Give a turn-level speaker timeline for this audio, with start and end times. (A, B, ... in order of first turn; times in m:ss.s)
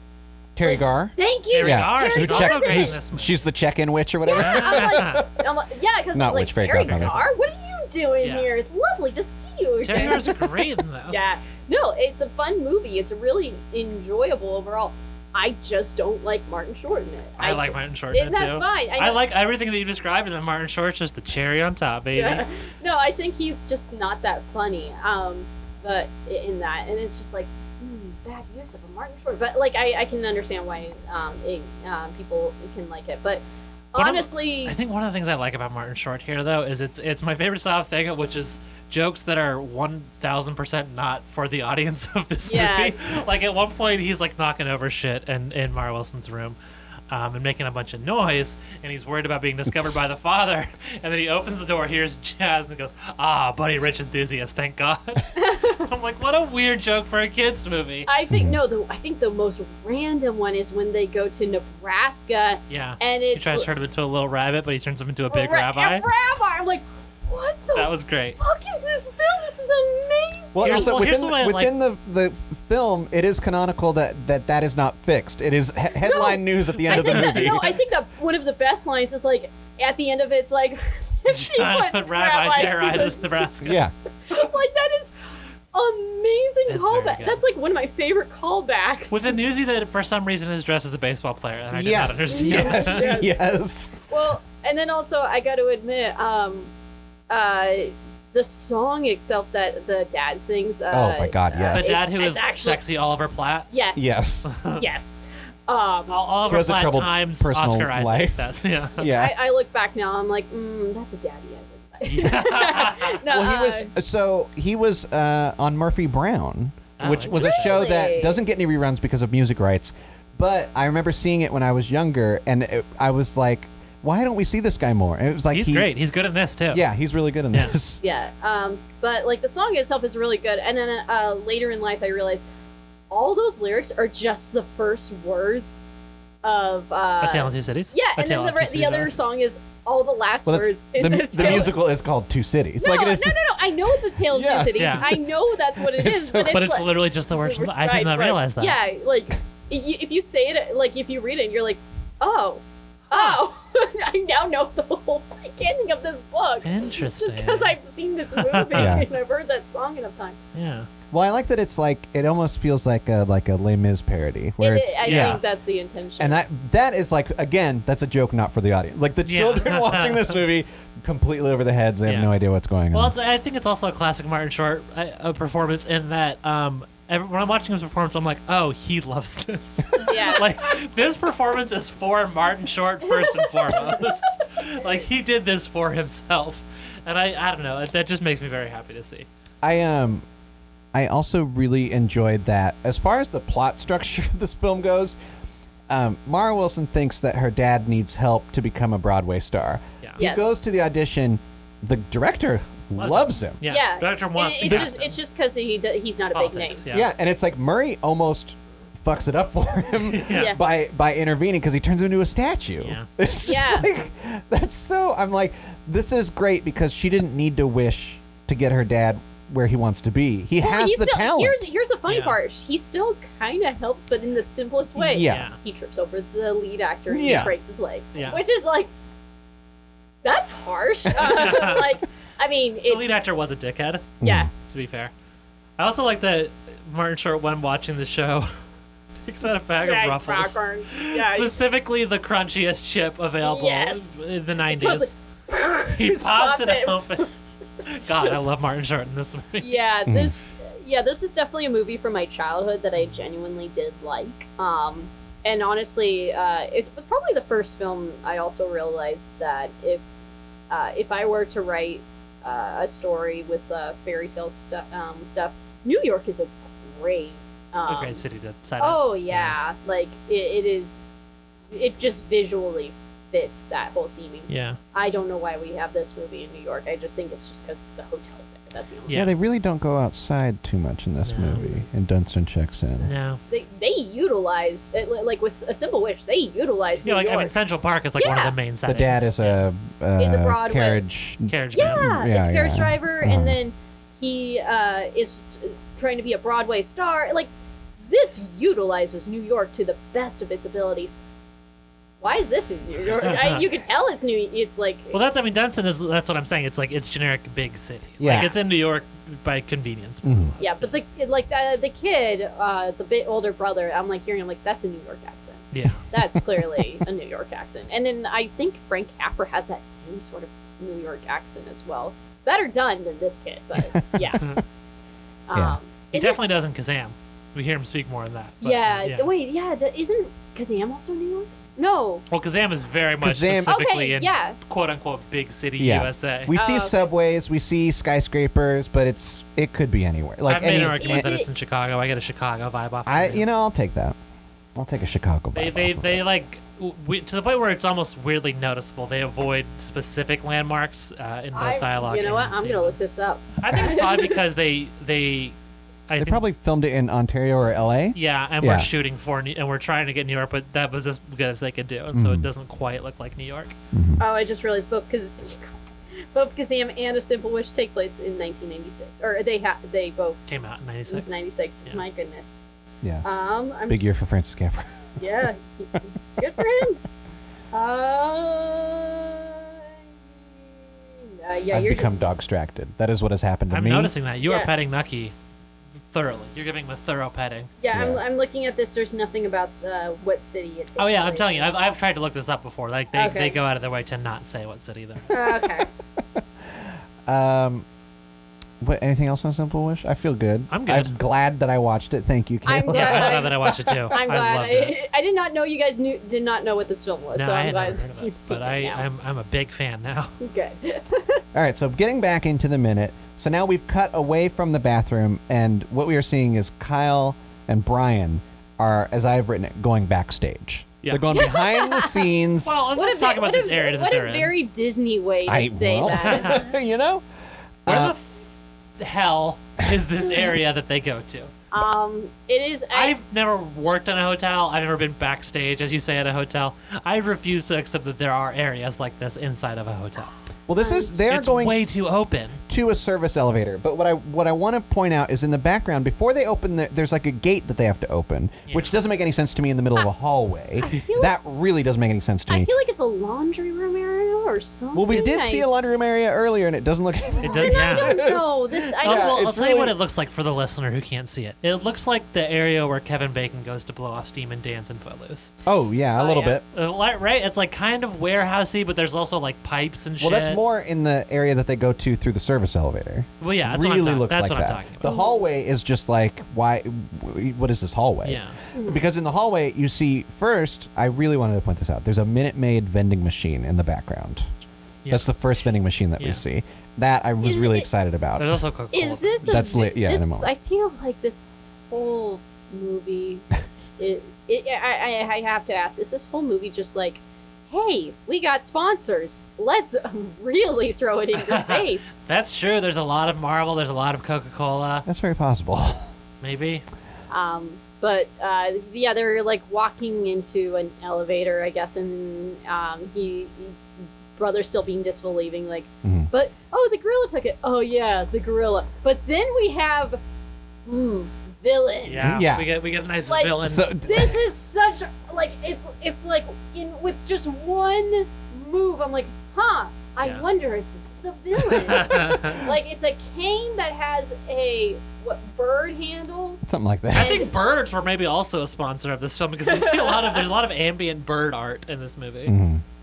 0:00.5-0:05.4 A
0:00.6-0:03.0 B
0:01.5-0:03.4 C
0:04.2-0:19.2 B
0:04.3-0:05.2 C
0:06.1-0:07.2 A
0:06.8-0:07.2 C
0:08.2-0:08.5 C
0:09.8-0:11.3 C
0:17.4-0:22.4 C
0:22.1-0:34.8 B
0:34.0-0:46.6 C
0:42.4-0:43.2 B
0:47.1-0:58.1 C
0:55.4-0:55.8 B
0:58.0-1:03.7 B
0:58.3-0:58.6 A
1:02.7-1:06.1 C
1:05.3-1:10.9 B
1:07.7-1:08.4 C
1:10.5-1:17.8 A
1:10.6-1:11.7 C
1:16.0-1:23.5 B
1:16.8-1:17.6 C
1:21.3-1:23.8 C
1:23.6-1:23.9 A
1:24.3-1:25.1 B
1:25.7-1:29.4 B
1:26.7-1:27.4 C
1:29.1-1:33.2 C
1:31.7-1:34.0 A
1:32.3-1:33.5 B
1:34.1-1:36.7 B
1:37.3-1:42.8 B
1:40.9-1:42.0 A
1:41.7-1:43.7 C
1:43.7-1:46.2 B
1:44.0-1:44.5 A
1:44.4-1:44.8 C
1:46.1-1:49.1 C
1:46.5-1:49.4 A
1:49.0-1:53.9 B
1:52.1-1:53.2 C
1:53.2-2:05.9 A
1:57.0-1:57.9 C
1:57.3-1:58.4 B
2:05.5-2:06.8 C
2:06.7-2:08.0 A
2:08.0-2:12.5 B
2:13.1-2:15.8 B
2:16.4-2:21.8 B
2:17.2-2:19.2 C
2:20.4-2:23.4 A
2:21.4-2:21.7 C
2:22.8-2:40.4 B
2:24.3-2:26.7 A
2:24.8-2:25.1 C
2:26.4-2:28.8 C
2:33.1-2:33.4 C
2:36.6-2:37.8 C
2:38.4-2:39.0 C
2:38.7-2:39.1 A
2:40.5-2:40.9 C
2:41.1-2:45.4 A
2:44.6-2:46.4 B
2:45.0-2:45.4 C
2:46.2-2:53.1 A
2:49.2-2:50.4 C
2:52.0-2:52.3 C
2:52.9-3:09.3 C
3:00.0-3:00.6 B
3:03.2-3:03.9 B
3:09.6-3:10.2 A
3:10.9-3:15.2 A
3:15.9-3:23.6 A
3:20.2-3:20.5 B
3:23.0-3:25.2 C
3:23.6-3:26.8 B
3:26.3-3:27.1 C
3:26.9-3:41.6 A
3:30.1-3:30.5 C
3:30.3-3:30.6 B
3:32.8-3:33.1 C
3:33.4-3:33.9 B
3:40.6-3:48.9 B
3:42.1-3:42.4 C
3:44.9-3:45.5 A
3:45.2-3:45.6 C
3:47.1-3:47.5 A
3:47.2-3:47.5 C
3:48.1-3:48.4 C
3:50.2-3:53.3 B
3:51.2-3:52.0 C
3:52.9-3:55.1 C
3:54.2-3:54.5 A
3:54.2-3:54.5 B
3:55.8-3:58.5 C
3:59.2-4:05.1 C
3:59.8-4:01.6 B
4:03.4-4:07.3 B
4:05.9-4:07.3 C
4:07.8-4:09.8 C
4:09.6-4:20.0 B
4:10.0-4:10.4 A
4:20.7-4:28.2 B
4:27.9-4:29.6 C
4:28.8-4:31.0 B
4:31.7-4:39.2 B
4:34.5-4:34.8 C
4:39.1-4:39.3 C
4:39.1-4:43.1 A
4:41.2-4:41.8 C
4:43.0-4:43.4 C
4:43.5-4:47.5 B
4:47.0-4:49.6 C
4:48.2-4:48.5 B
4:48.8-4:53.6 A
4:50.2-4:51.0 B
4:51.5-4:52.1 C
4:51.7-4:57.5 B
4:58.0-5:01.2 B
5:02.2-5:05.2 B
5:03.2-5:03.6 C
5:05.1-5:11.0 C
5:08.2-5:08.5 A
5:10.2-5:10.5 A
5:10.6-5:24.5 B
5:15.7-5:16.0 C
5:16.5-5:16.8 A
5:24.1-5:24.4 A
5:25.5-5:26.4 B
5:26.1-5:29.3 C
5:28.6-5:32.2 B
5:32.3-5:36.5 C
5:33.2-5:33.8 A
5:33.7-5:34.6 B
5:35.8-5:41.3 A
5:36.5-5:37.0 B
5:40.4-5:43.4 C
5:41.0-5:41.5 B
5:43.0-5:44.2 A
5:44.8-5:46.2 A
5:45.5-5:53.0 C
5:51.5-5:54.4 B
5:53.6-5:55.5 C
5:56.1-5:56.4 C
5:56.2-5:58.9 A
5:58.1-6:03.8 C
6:02.1-6:02.5 A
6:03.9-6:04.2 A
6:04.2-6:10.4 B
6:10.5-6:12.0 C
6:11.1-6:12.6 B
6:13.2-6:14.1 B
6:13.9-6:15.0 A
6:15.2-6:17.0 B
6:17.7-6:22.2 B
6:21.7-6:24.1 A
6:23.7-6:25.3 C
6:26.1-6:27.7 C
6:27.8-6:31.7 B
6:27.9-6:28.2 A
6:31.0-6:35.4 C
6:33.1-6:33.6 B
6:35.3-6:35.9 B
6:36.4-6:37.8 A
6:38.8-6:44.0 A
6:40.7-6:41.2 C
6:42.6-6:49.0 B
6:42.9-6:44.9 C
6:47.3-6:50.4 C
6:50.4-6:51.4 B
6:51.5-7:02.7 A
7:01.3-7:02.3 B
7:02.6-7:04.5 C
7:02.9-7:06.6 B
7:05.4-7:07.2 A
7:06.2-7:06.6 C
7:07.8-7:08.1 A
7:07.9-7:08.4 C
7:09.0-7:11.5 C
7:11.7-7:13.1 B
7:12.9-7:20.3 C
7:20.7-7:21.8 A
7:20.8-7:21.1 B
7:21.2-7:22.6 C
7:22.7-7:32.7 A
7:28.7-7:29.0 C
7:30.8-7:31.3 B
7:32.5-7:35.7 B
7:34.9-7:39.9 A
7:37.4-7:38.2 C
7:37.4-7:39.3 B
7:39.0-7:45.6 C
7:45.6-7:46.6 B
7:45.6-7:46.6 A
7:46.6-7:50.6 C
7:50.2-8:04.4 A
7:53.4-7:55.1 C
7:55.0-7:55.4 B
7:58.2-7:58.6 C
7:58.7-7:59.0 B
8:05.0-8:06.4 C
8:05.1-8:08.6 A
8:07.4-8:07.9 B
8:08.4-8:09.7 C
8:08.9-8:13.4 B
8:09.4-8:10.5 A
8:14.0-8:22.3 B
8:21.4-8:25.0 C
8:25.0-8:26.0 A
8:26.4-8:26.8 C
8:27.3-8:33.8 B
8:34.4-8:40.2 B
8:36.0-8:36.3 A
8:40.8-8:42.3 B
8:42.0-8:43.9 C
8:42.2-8:42.7 A
8:43.3-8:56.6 B
8:43.6-8:44.4 A
8:51.7-8:52.7 C
8:56.6-8:57.4 A
8:57.1-9:02.5 C
8:57.1-8:57.5 B
8:59.6-9:00.4 B
9:02.4-9:02.8 A